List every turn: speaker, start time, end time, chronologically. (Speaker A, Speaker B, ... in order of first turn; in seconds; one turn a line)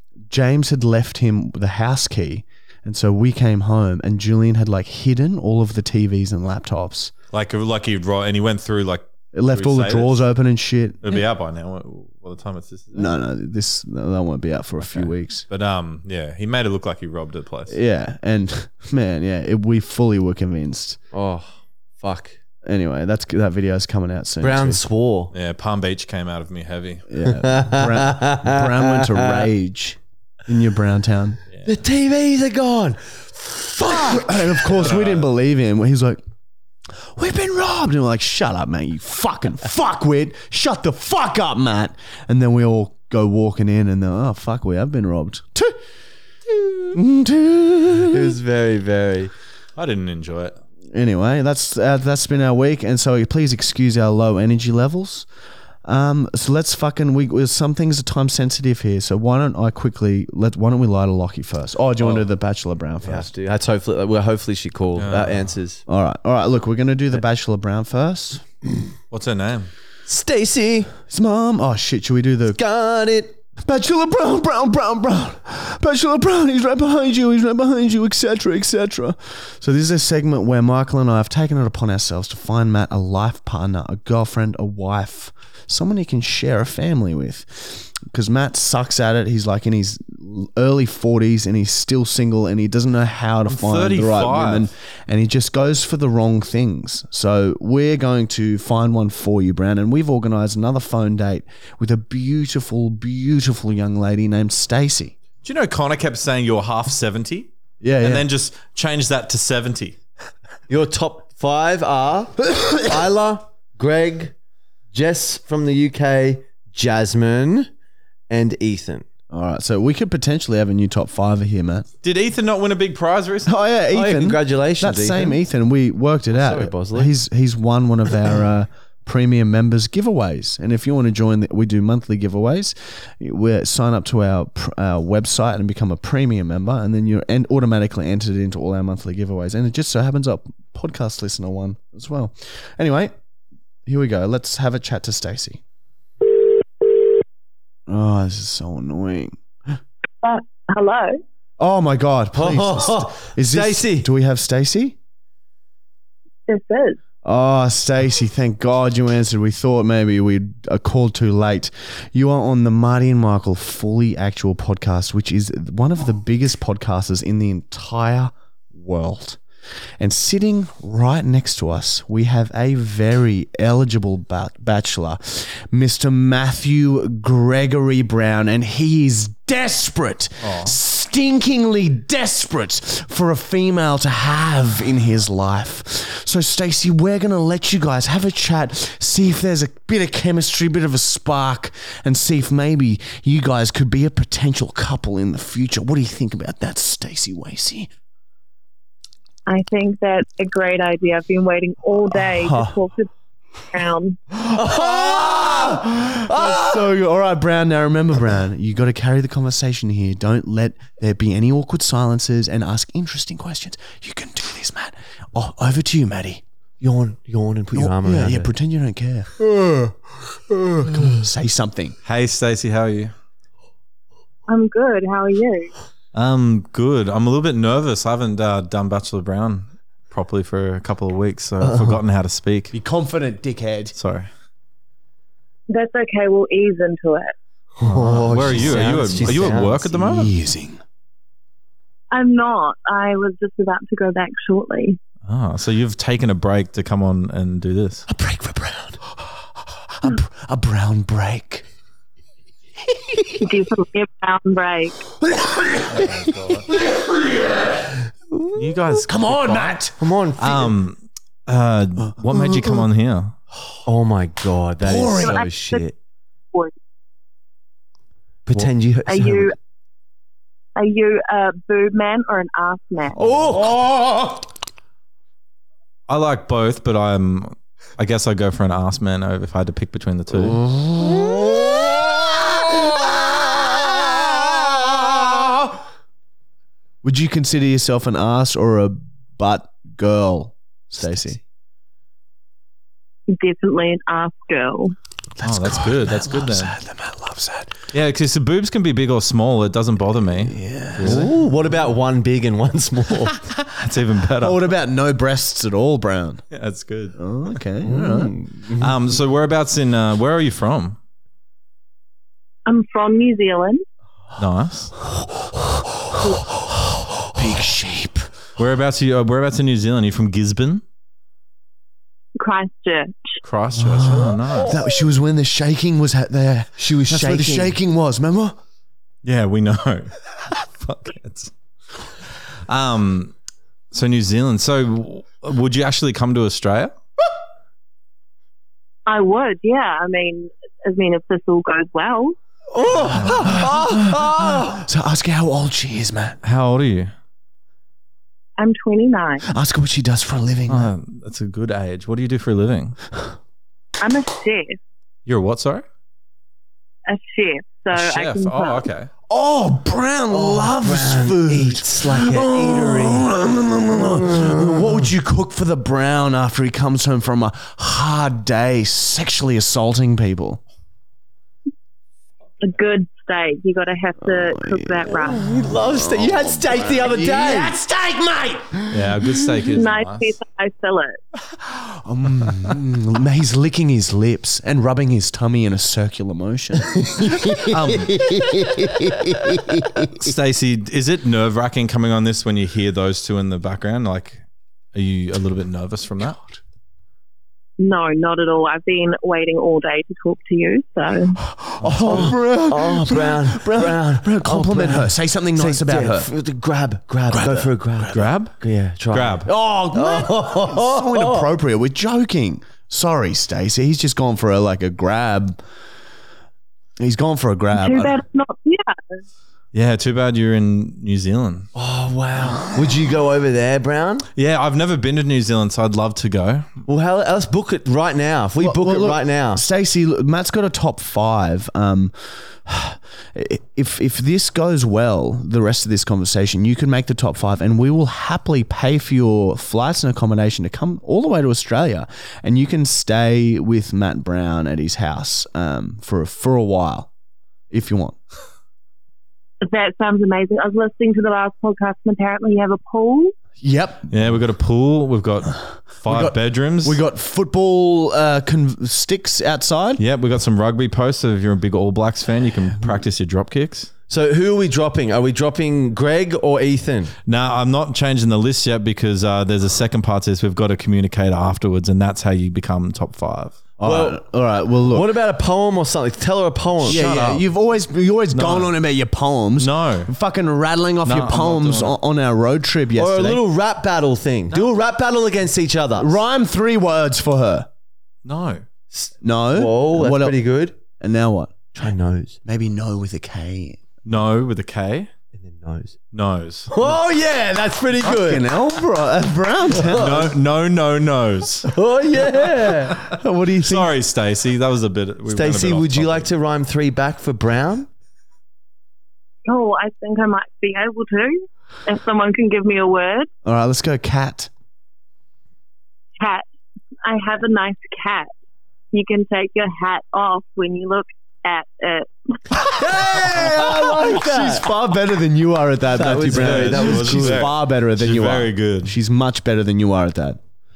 Speaker A: 0.3-7.1
Speaker B: 7.3-10.2
Speaker A: 9.3-11.2
Speaker B: 11.0-13.1
Speaker A: 12.9-15.5
Speaker B: 14.9-17.8
Speaker A: 17.7-21.0
Speaker C: 21.1-22.4
Speaker A: 22.6-24.8
Speaker C: 24.4-25.3
Speaker B: 25.3-27.1
Speaker A: 27.1-31.4
Speaker C: 27.2-29.5
Speaker C: 31.6-34.7
Speaker A: 33.9-36.2
Speaker B: 34.8-35.3
Speaker A: 37.0-45.8
Speaker A: 46.9-48.4
Speaker C: 48.1-49.3
Speaker B: 49.8-50.6
Speaker A: 50.9-55.3
Speaker A: 55.9-63.3
Speaker C: 62.0-62.3
Speaker C: 63.0-65.8
Speaker B: 65.0-65.5
Speaker A: 65.9-68.4
Speaker B: 69.1-69.7
Speaker C: 70.1-70.9
Speaker A: 71.1-72.6
Speaker C: 72.5-73.4
Speaker A: 73.6-105.2
Speaker B: 93.5-94.7
Speaker B: 105.4-110.0
Speaker A: 107.8-108.2
Speaker C: 110.7-114.3
Speaker C: 114.9-117.7
Speaker C: 118.3-119.1
Speaker A: 119.3-121.9
Speaker B: 122.0-123.5
Speaker A: 123.5-143.1
Speaker C: 123.9-125.4
Speaker C: 126.3-127.1
Speaker A: 143.9-145.6
Speaker A: 147.9-149.8
Speaker D: 150.2-151.2
Speaker A: 151.6-155.0
Speaker C: 152.3-154.1
Speaker D: 156.5-157.0
Speaker A: 157.2-169.4
Speaker A: 170.0-197.9
Speaker B: 180.4-180.8
Speaker D: 199.5-203.1
Speaker A: 202.1-202.8
Speaker D: 203.7-204.2
Speaker A: 204.3-216.4
Speaker C: 204.5-206.6
Speaker C: 216.8-218.5
Speaker A: 217.7-219.9
Speaker A: 220.8-221.9
Speaker B: 222.1-223.1
Speaker D: 224.5-225.7
Speaker B: 226.1-232.7
Speaker A: 232.7-233.9
Speaker B: 233.9-234.3
Speaker D: 235.7-237.3
Speaker C: 237.8-239.9
Speaker B: 237.8-240.3
Speaker A: 238.5-240.8
Speaker D: 242.1-245.0
Speaker B: 245.3-248.1
Speaker A: 248.1-249.0
Speaker A: 249.8-251.7
Speaker A: 252.9-253.4
Speaker D: 253.4-255.0
Speaker A: 255.2-256.6
Speaker B: 255.9-256.7
Speaker B: 258.6-259.8
Speaker A: 259.1-259.9
Speaker C: 260.0-260.8
Speaker B: 260.4-263.4
Speaker A: 262.1-262.8
Speaker C: 263.9-266.0
Speaker A: 264.8-265.5
Speaker D: 265.1-265.8
Speaker C: 268.5-269.5
Speaker D: 269.1-269.6
Speaker D: 270.8-273.2
Speaker C: 273.1-273.7
Speaker A: 273.5-274.4
Speaker B: 276.1-280.6
Speaker A: 280.6-282.7
Speaker C: 281.0-281.3
Speaker A: 283.6-284.9
Speaker A: 287.0-291.4
Speaker D: 293.3-295.0
Speaker A: 295.4-297.8
Speaker B: 295.4-296.8
Speaker B: 297.9-301.3
Speaker A: 300.4-301.3
Speaker C: 301.0-303.3
Speaker B: 303.6-304.6
Speaker A: 304.4-306.4
Speaker B: 306.5-307.2
Speaker A: 307.2-308.3
Speaker C: 307.8-308.9
Speaker B: 308.8-311.0
Speaker D: 312.7-313.8
Speaker B: 314.4-314.9
Speaker A: 317.3-318.3
Speaker B: 318.6-320.8
Speaker D: 322.4-323.4
Speaker B: 323.4-324.8
Speaker A: 323.7-328.6
Speaker C: 326.8-327.8
Speaker B: 329.2-331.5
Speaker B: 332.7-333.3
Speaker B: 333.9-336.9
Speaker D: 339.1-342.4
Speaker C: 342.8-344.8
Speaker A: 342.9-346.4
Speaker B: 346.4-347.1
Speaker D: 348.6-349.5
Speaker A: 349.5-350.9
Speaker B: 350.7-353.0
Speaker D: 354.0-354.8
Speaker B: 355.3-355.9
Speaker D: 357.1-358.9
Speaker B: 357.9-359.1
Speaker A: 359.3-370.6
Speaker C: 360.3-363.3
Speaker C: 364.0-364.8
Speaker D: 372.6-375.4
Speaker A: 374.2-379.8
Speaker C: 375.3-377.8
Speaker B: 378.9-380.3
Speaker D: 379.7-381.2
Speaker A: 381.6-387.3
Speaker C: 386.9-390.1
Speaker B: 387.7-388.2
Speaker B: 390.1-394.4
Speaker B: 394.9-396.4
Speaker D: 397.8-401.4
Speaker A: 401.5-406.3
Speaker B: 401.8-402.3
Speaker C: 402.0-411.5
Speaker A: 407.3-407.7
Speaker B: 408.1-408.5
Speaker B: 409.1-409.5
Speaker A: 409.5-415.6
Speaker A: 417.0-418.2
Speaker D: 417.7-418.9
Speaker B: 419.7-421.7
Speaker C: 421.8-424.3
Speaker B: 424.4-426.8
Speaker C: 426.9-429.6
Speaker A: 428.6-447.1
Speaker A: 447.7-448.2
Speaker D: 449.6-453.4
Speaker A: 453.6-454.1
Speaker B: 454.1-457.0
Speaker A: 456.1-460.0
Speaker B: 460.0-463.9
Speaker C: 464.1-467.1
Speaker B: 467.3-473.6
Speaker A: 473.8-475.1
Speaker C: 473.8-474.2
Speaker C: 474.9-477.0
Speaker B: 476.8-477.4
Speaker A: 476.8-483.4
Speaker B: 478.3-478.7
Speaker B: 479.6-480.1
Speaker B: 481.1-482.0
Speaker C: 483.0-486.2
Speaker A: 486.0-487.7
Speaker B: 488.2-488.6
Speaker C: 488.9-490.8
Speaker A: 489.2-490.4
Speaker A: 491.0-491.5
Speaker C: 491.7-492.4
Speaker A: 492.4-493.8
Speaker B: 494.1-495.1
Speaker C: 495.3-496.0
Speaker B: 496.1-496.7
Speaker C: 496.7-498.5
Speaker A: 498.0-500.4
Speaker C: 499.8-500.3
Speaker B: 499.9-501.7
Speaker C: 501.6-503.0
Speaker A: 502.8-503.9
Speaker B: 503.6-506.3
Speaker C: 505.3-507.9
Speaker D: 509.5-513.3
Speaker A: 513.5-514.5
Speaker D: 516.2-516.5
Speaker D: 517.0-518.3
Speaker D: 518.9-522.1
Speaker A: 522.7-530.4
Speaker C: 522.8-524.7
Speaker C: 525.9-527.5
Speaker B: 526.3-528.9